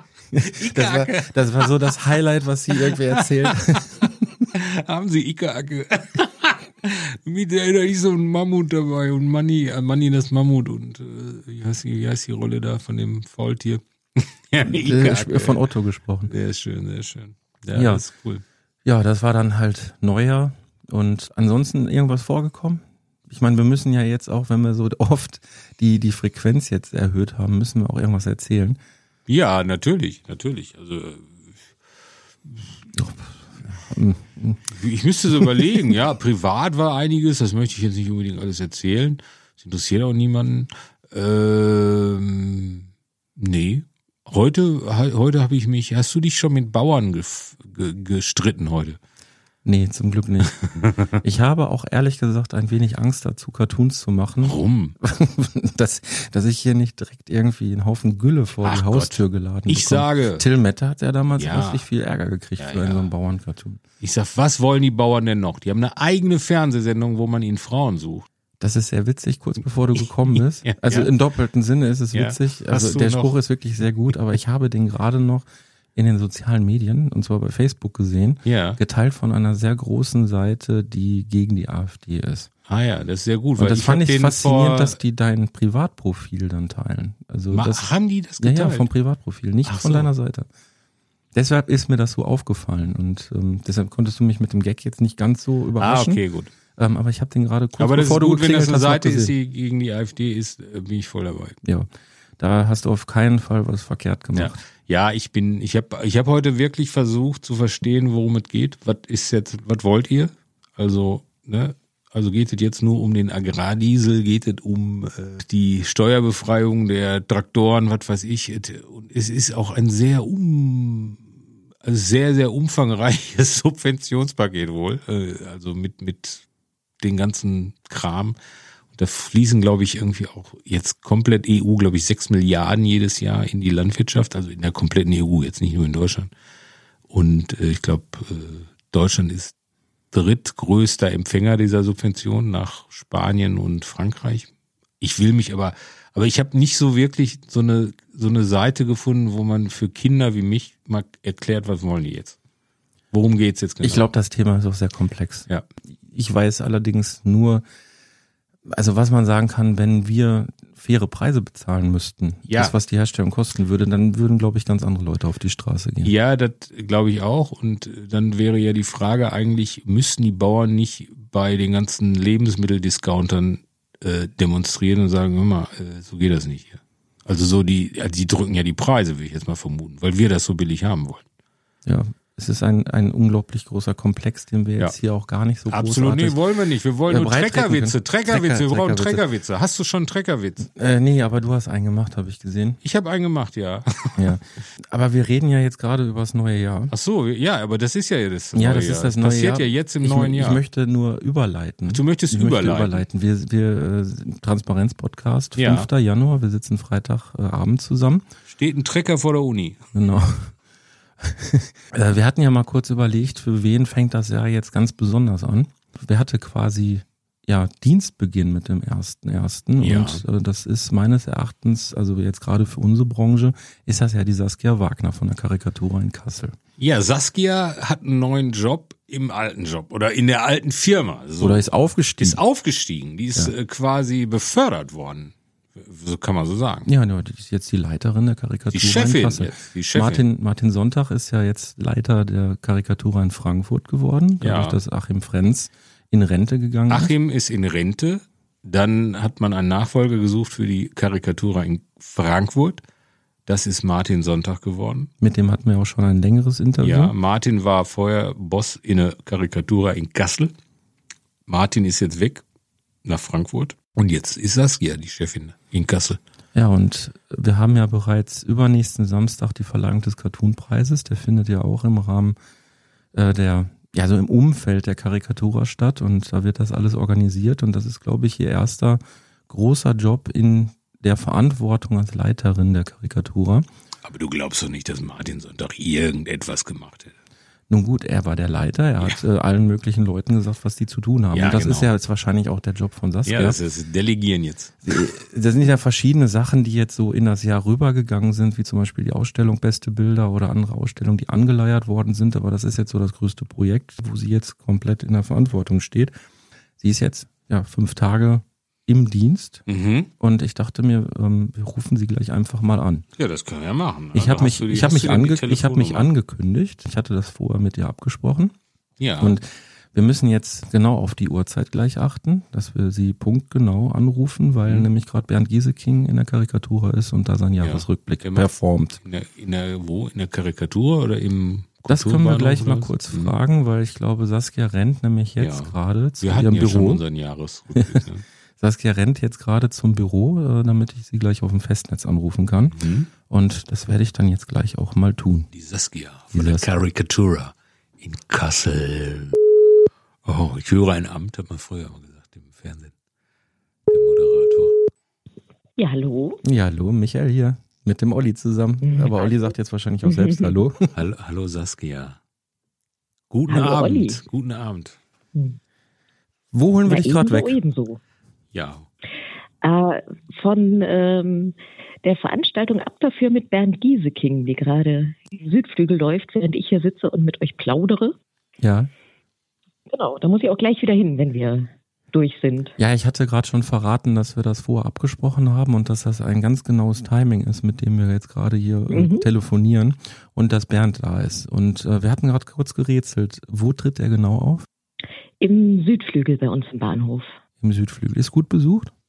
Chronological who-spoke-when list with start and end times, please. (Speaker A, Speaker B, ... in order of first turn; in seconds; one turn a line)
Speaker A: 0.3-4.1
Speaker B: 0.5-2.0
Speaker B: 2.7-15.6
Speaker A: 14.7-16.3
Speaker B: 16.3-18.4
Speaker A: 17.7-18.0
Speaker A: 18.9-28.8
Speaker B: 29.3-31.4
Speaker A: 32.9-34.6
Speaker B: 34.7-49.0
Speaker A: 49.6-50.5
Speaker A: 51.2-63.8
Speaker B: 54.4-55.0
Speaker B: 58.6-60.5
Speaker B: 61.4-61.8
Speaker B: 62.6-63.1
Speaker B: 64.0-68.3
Speaker A: 68.6-82.5
Speaker B: 70.7-71.1
Speaker B: 72.1-73.4
Speaker B: 78.5-78.8
Speaker B: 82.7-85.0
Speaker A: 83.6-87.9
Speaker B: 87.5-88.9
Speaker A: 88.4-90.5
Speaker B: 89.7-90.1
Speaker A: 91.3-96.2
Speaker B: 95.8-96.5
Speaker A: 96.8-99.3
Speaker B: 97.8-101.6
Speaker A: 102.4-104.5
Speaker B: 104.3-121.2
Speaker B: 121.8-126.4
Speaker B: 127.0-128.4
Speaker B: 128.9-136.3
Speaker B: 137.1-139.5
Speaker B: 140.1-144.5
Speaker B: 145.0-152.4
Speaker B: 153.1-154.1
Speaker A: 153.8-155.5
Speaker A: 156.1-157.6
Speaker A: 158.7-166.1
Speaker B: 162.5-162.8
Speaker B: 166.0-181.2
Speaker A: 181.8-186.4
Speaker B: 185.7-190.7
Speaker A: 187.1-189.2
Speaker A: 190.7-192.8
Speaker B: 192.8-194.3
Speaker A: 194.2-196.9
Speaker B: 196.9-200.6
Speaker A: 198.6-208.2
Speaker B: 201.9-203.0
Speaker B: 205.6-205.9
Speaker B: 208.5-209.8
Speaker A: 209.9-210.5
Speaker A: 211.2-226.6
Speaker B: 219.8-220.2
Speaker B: 226.8-231.7
Speaker A: 231.4-232.4
Speaker B: 232.2-236.9
Speaker A: 236.9-247.1
Speaker B: 238.7-240.2
Speaker B: 244.4-244.8
Speaker B: 246.9-252.8
Speaker B: 253.5-255.1
Speaker A: 255.2-257.1
Speaker B: 256.8-260.5
Speaker B: 261.5-262.4
Speaker B: 263.1-266.2
Speaker A: 266.6-272.4
Speaker A: 273.1-283.7
Speaker B: 284.0-287.1
Speaker A: 287.7-293.6
Speaker B: 291.3-291.9
Speaker B: 293.3-295.0
Speaker A: 294.9-306.1
Speaker A: 306.8-309.6
Speaker B: 309.7-310.1
Speaker A: 310.2-313.1
Speaker B: 313.2-316.1
Speaker A: 314.1-318.5
Speaker B: 319.0-319.4
Speaker A: 319.2-329.0
Speaker B: 327.6-328.5
Speaker B: 329.0-333.3
Speaker A: 331.9-337.0
Speaker B: 335.4-338.2
Speaker A: 337.8-338.0
Speaker A: 338.6-345.5
Speaker B: 342.8-343.1
Speaker B: 345.5-349.4
Speaker A: 346.3-346.7
Speaker B: 350.2-352.9
Speaker B: 353.9-354.8
Speaker C: 355.8-356.4
Speaker A: 356.4-360.9
Speaker C: 358.8-359.5
Speaker C: 360.1-360.5
Speaker B: 360.9-362.2
Speaker B: 363.3-365.0
Speaker C: 363.5-364.2
Speaker A: 366.5-367.6
Speaker C: 366.9-368.0
Speaker B: 368.5-368.9
Speaker C: 369.6-378.2
Speaker A: 378.6-378.9
Speaker C: 379.9-382.8
Speaker A: 382.8-394.7
Speaker C: 388.9-389.2
Speaker C: 395.4-397.3
Speaker A: 397.6-398.9